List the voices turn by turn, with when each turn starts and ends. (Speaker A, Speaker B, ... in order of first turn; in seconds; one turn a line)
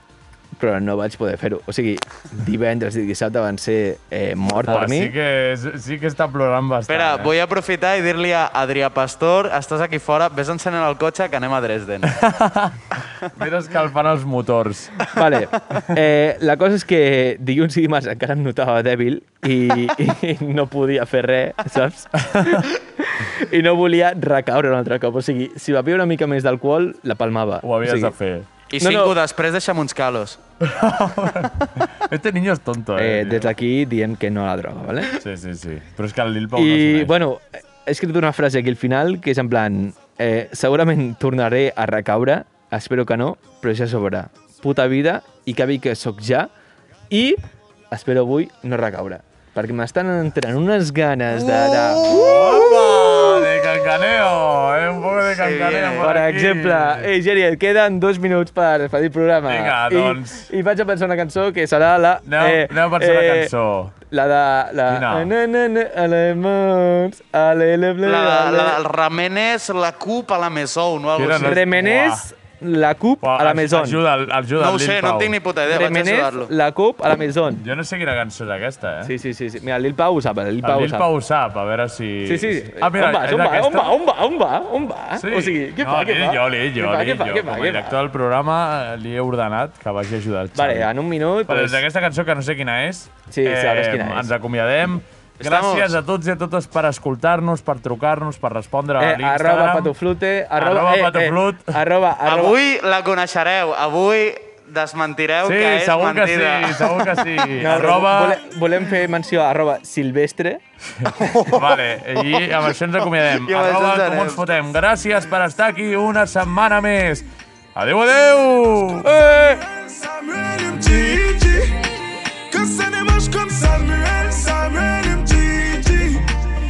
Speaker A: 0.5-5.2
Speaker B: 4.6-7.3
Speaker C: 6.9-12.2
Speaker B: 12.1-15.1
Speaker A: 15.1-28.1
Speaker B: 22.3-22.6
Speaker B: 27.6-28.5
Speaker C: 28.7-30.4
Speaker A: 28.8-29.1
Speaker B: 30.6-33.5
Speaker A: 32.9-35.2
Speaker B: 35.2-37.1
Speaker A: 36.5-46.5
Speaker A: 47.1-53.6
Speaker B: 51.3-57.1
Speaker C: 55.3-56.1
Speaker A: 56.0-63.5
Speaker B: 59.5-60.5
Speaker B: 62.2-64.0
Speaker A: 64.1-68.8
Speaker B: 64.9-65.3
Speaker C: 68.0-71.6
Speaker B: 71.2-72.3
Speaker A: 71.3-74.0
Speaker B: 73.2-75.4
Speaker C: 74.6-76.5
Speaker A: 75.7-77.6
Speaker B: 77.6-79.1
Speaker A: 79.0-81.1
Speaker B: 80.6-83.9
Speaker A: 82.2-88.0
Speaker B: 85.2-90.9
Speaker A: 90.5-91.8
Speaker B: 91.5-99.9
Speaker A: 93.3-94.3
Speaker C: 95.4-95.9
Speaker A: 99.0-102.5
Speaker B: 100.5-101.8
Speaker C: 102.2-107.5
Speaker B: 105.4-108.4
Speaker A: 107.5-110.6
Speaker B: 111.0-117.2
Speaker C: 111.1-114.4
Speaker B: 117.8-119.1
Speaker A: 119.0-119.6
Speaker D: 119.2-121.9
Speaker D: 122.5-126.2